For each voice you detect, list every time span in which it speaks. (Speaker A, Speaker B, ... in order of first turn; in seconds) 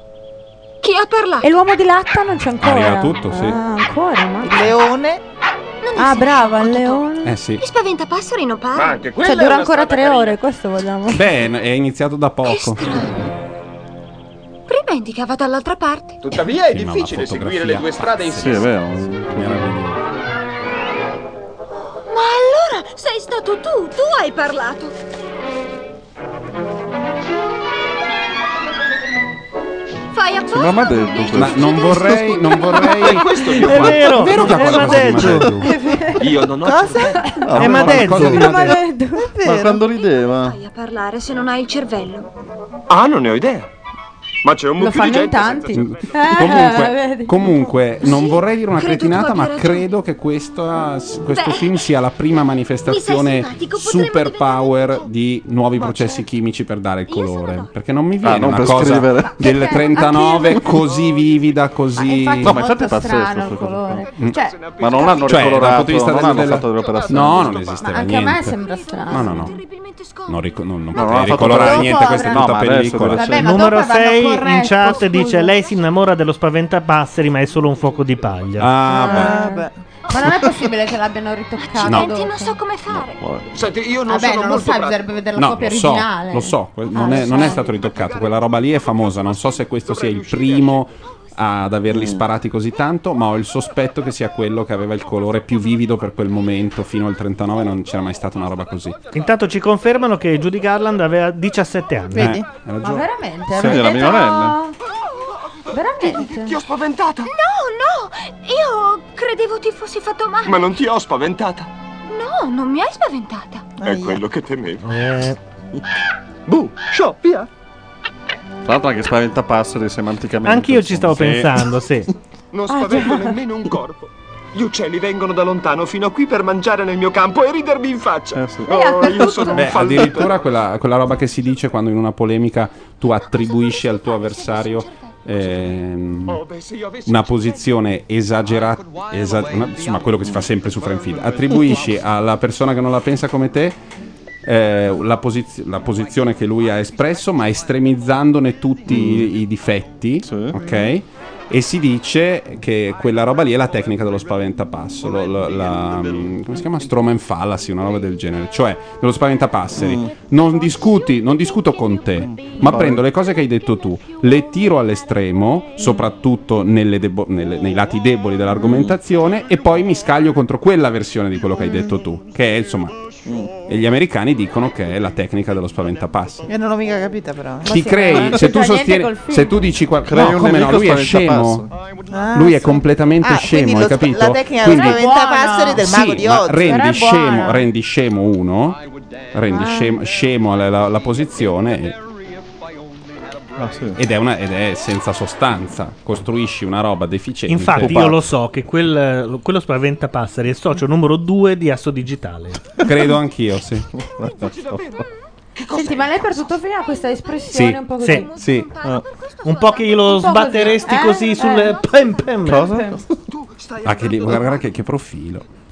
Speaker A: 0.8-1.5, 5.8-7.1, 7.6-9.0, 12.4-13.2, 14.7-16.3, 22.1-24.9, 30.1-33.4, 40.0-42.3, 48.0-49.9, 51.3-51.9, 52.9-55.1, 55.8-56.2, 57.1-57.7, 68.6-71.1, 81.6-83.2, 107.2-110.7, 112.1-113.7, 133.0-135.7, 204.2-205.1, 206.7-211.0, 211.7-212.3
Speaker B: 1.4-4.8, 6.0-7.4, 9.1-11.3, 35.6-36.5, 37.1-37.5, 38.4-39.4, 44.8-47.4, 59.4-60.9, 62.0-65.2, 67.8-69.5, 71.4-72.5, 73.1-75.5, 78.8-82.5, 84.0-87.8, 102.8-104.8, 105.7-106.6, 122.7-123.4, 128.7-129.9, 177.7-179.6, 184.6-185.9, 186.6-187.6, 189.5-190.0, 205.7-208.3, 210.2-211.8, 212.6-213.0
Speaker C: 2.6-3.6, 7.2-7.6, 11.1-13.0, 16.6-20.0, 31.3-35.7, 37.6-38.7, 45.7-62.6, 65.3-69.6, 70.3-73.4, 78.6-79.4, 81.8-82.1, 85.4-99.0, 102.1-103.1, 129.5-136.4, 137.1-143.8, 144.4-173.0, 173.7-176.5, 177.7-181.7, 182.3-185.0, 185.8-188.8, 189.3-192.0, 194.0-198.2, 202.8-203.9, 207.5-208.7, 213.8-215.4
Speaker D: 4.4-5.2, 36.4-37.4, 38.5-39.8, 79.0-79.8, 102.2-102.4, 113.8-114.2, 176.5-178.3, 182.1-186.8
Speaker E: 8.7-10.4, 16.2-18.5, 33.0-34.2, 36.2-37.2, 42.9-43.7, 44.4-46.7, 60.8-61.5, 64.1-65.6, 66.8-67.9, 83.5-85.0, 87.1-90.9, 106.1-107.3, 110.5-111.7, 113.8-114.8, 116.5-117.5, 122.5-130.5, 136.3-137.6, 138.8-139.7, 205.7-206.1, 213.3-214.7
Speaker F: 18.3-19.7, 30.5-32.3, 35.2-35.5, 37.4-38.5, 39.4-40.6, 58.2-59.4, 62.4-64.1, 64.8-67.6, 70.9-73.4, 83.2-83.5, 91.9-92.2, 103.5-104.6, 118.7-121.7, 128.3-129.3, 148.9-149.3, 150.2-150.6, 159.8-160.1, 162.2-163.1, 168.6-169.0, 173.3-173.5, 180.0-181.7, 193.6-194.0, 197.8-198.2, 204.0-205.0, 212.5-213.2
Speaker G: 33.6-35.6, 37.6-38.8, 73.4-78.8, 99.1-102.4, 114.8-115.4, 120.5-122.1, 197.5-202.6, 208.0-208.3, 209.4-212.7